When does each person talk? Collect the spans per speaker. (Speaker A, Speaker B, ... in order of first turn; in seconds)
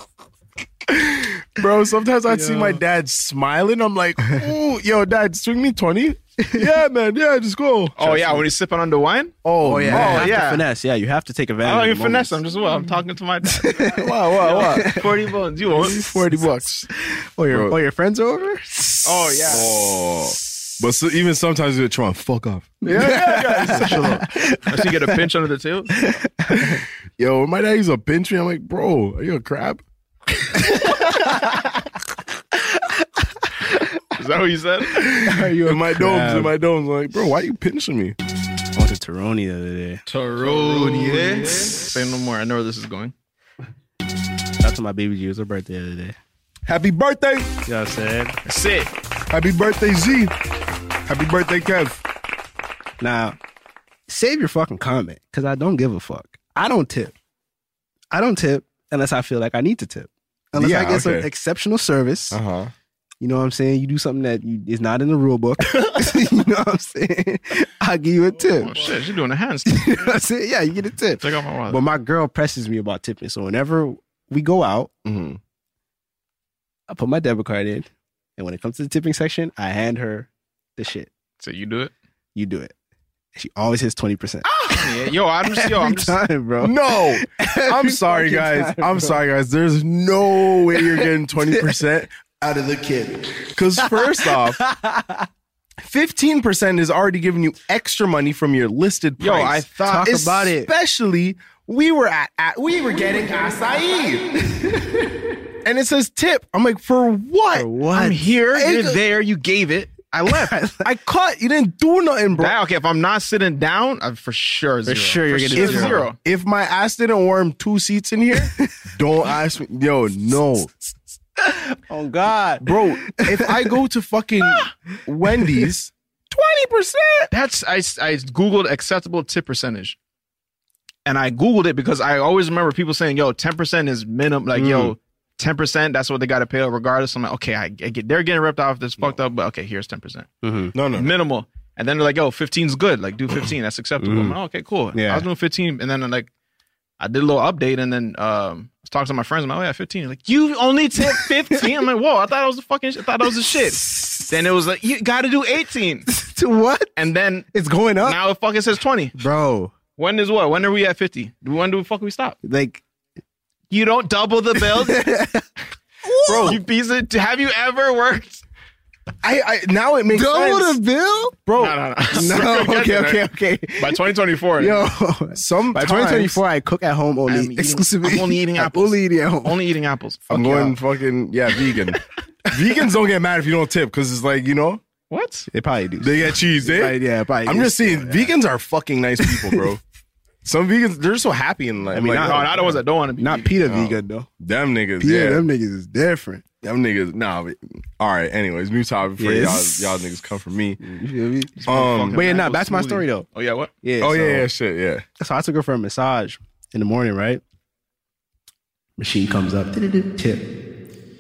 Speaker A: 0.9-8.5, 9.4-10.4, 13.9-15.0, 15.8-16.9, 17.5-17.8, 19.5-24.2, 27.2-29.8, 35.0-38.2, 46.7-47.5, 49.3-50.3, 51.1-52.0, 60.6-61.3, 62.3-62.7, 65.7-66.0, 75.0-75.4, 86.6-94.6, 95.8-99.9, 100.5-104.4, 105.6-107.7, 110.8-112.6, 115.6-120.9, 122.6-127.3, 140.7-141.1, 166.3-166.6, 169.2-170.8, 171.5-172.2, 175.3-176.4, 180.3-184.8, 186.0-189.8, 190.4-192.7, 193.7-195.4, 196.6-200.8, 201.7-202.2, 204.0-205.0
Speaker B: 2.4-2.8, 9.6-12.4, 13.4-19.5, 22.8-25.3, 25.9-26.8, 35.2-36.5, 38.8-40.0, 40.8-41.7, 44.6-46.2, 47.7-48.4, 53.0-53.4, 54.1-57.1, 58.1-62.4, 63.2-68.8, 69.7-74.9, 76.9-81.1, 82.3-82.7, 83.4-89.2, 90.8-91.6, 92.7-95.3, 99.8-100.7, 104.5-105.0, 107.5-108.8, 110.3-110.9, 114.8-116.1, 121.4-123.8, 134.5-135.0, 140.4-140.8, 144.0-144.4, 144.9-145.3, 151.1-151.7, 153.6-154.1, 156.1-158.2, 159.2-159.8, 162.4-162.8, 164.6-165.4, 166.0-166.6, 170.1-171.4, 172.1-179.7, 180.3-180.8, 185.5-188.3, 189.2-189.6, 191.9-194.3, 195.0-196.4, 199.2-200.1, 200.8-203.3, 203.8-204.5, 205.2-207.4, 209.0-210.4
Speaker C: 8.0-9.4, 9.9-10.6, 11.6-16.1, 19.1-19.7, 23.6-26.0, 34.2-35.1, 40.1-43.1, 48.5-48.9, 68.6-70.1, 71.2-71.8, 81.4-81.9, 84.5-86.2, 99.2-100.5, 108.0-110.5, 112.4-116.2, 127.3-130.0, 131.1-140.3, 140.9-146.3, 147.0-156.1, 157.0-157.5, 158.0-159.1, 160.0-162.4, 163.7-165.0, 166.3-168.4, 171.6-173.2, 173.8-174.8, 177.3-180.3, 185.1-185.5, 192.2-193.5, 201.6-203.7